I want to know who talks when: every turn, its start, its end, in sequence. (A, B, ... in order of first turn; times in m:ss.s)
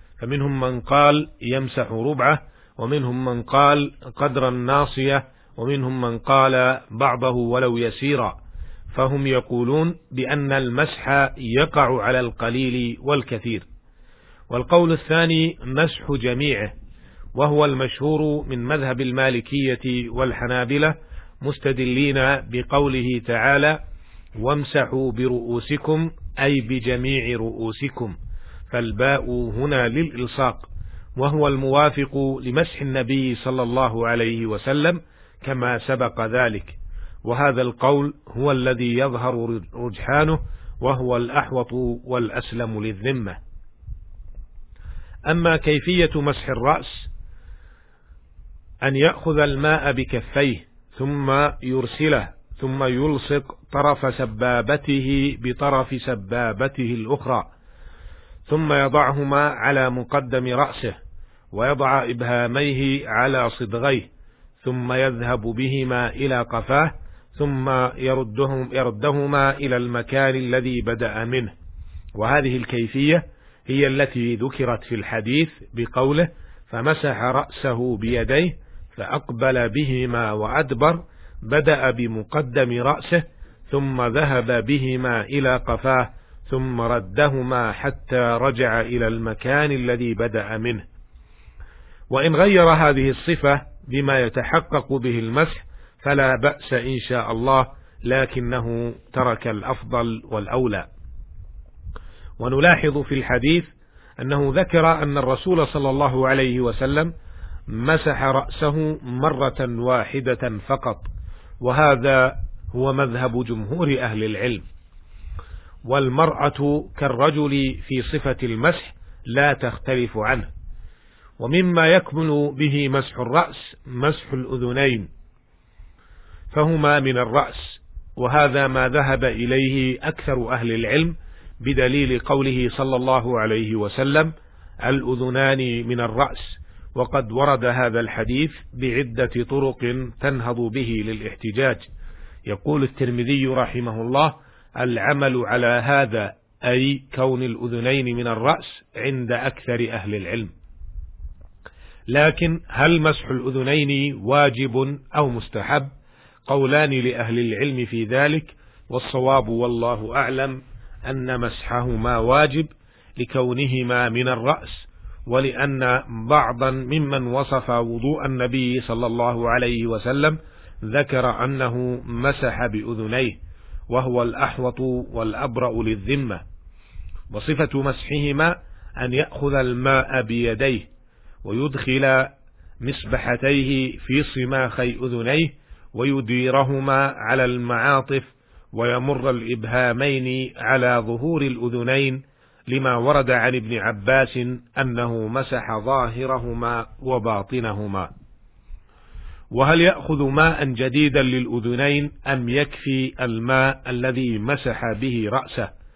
0:00.2-0:08.4 A
0:08.9-0:13.6 A
0:14.5-0:16.7 A
0:17.4-0:23.8 A
0:24.4-0:28.1 A
0:28.7-0:43.4 A
0:45.3-0:47.1 A
0:48.8-0:57.5 A
0:58.5-1:01.0 A
1:01.5-1:04.1 A
1:04.6-1:11.5 A
1:12.2-1:30.8 A
1:32.1-1:40.9 A
1:42.4-1:47.1 A
1:47.7-1:51.1 A
1:51.6-1:54.6 A
1:55.8-2:00.5 A
2:01.4-2:05.1 A
2:06.5-2:14.3 A
2:14.8-2:21.8 A
2:22.5-2:30.5 A
2:32.1-2:35.9 A
2:36.5-2:53.4 A
2:53.9-2:56.4 A
2:57.3-3:00.9 A
3:01.4-3:18.1 A
3:19.5-3:25.7 A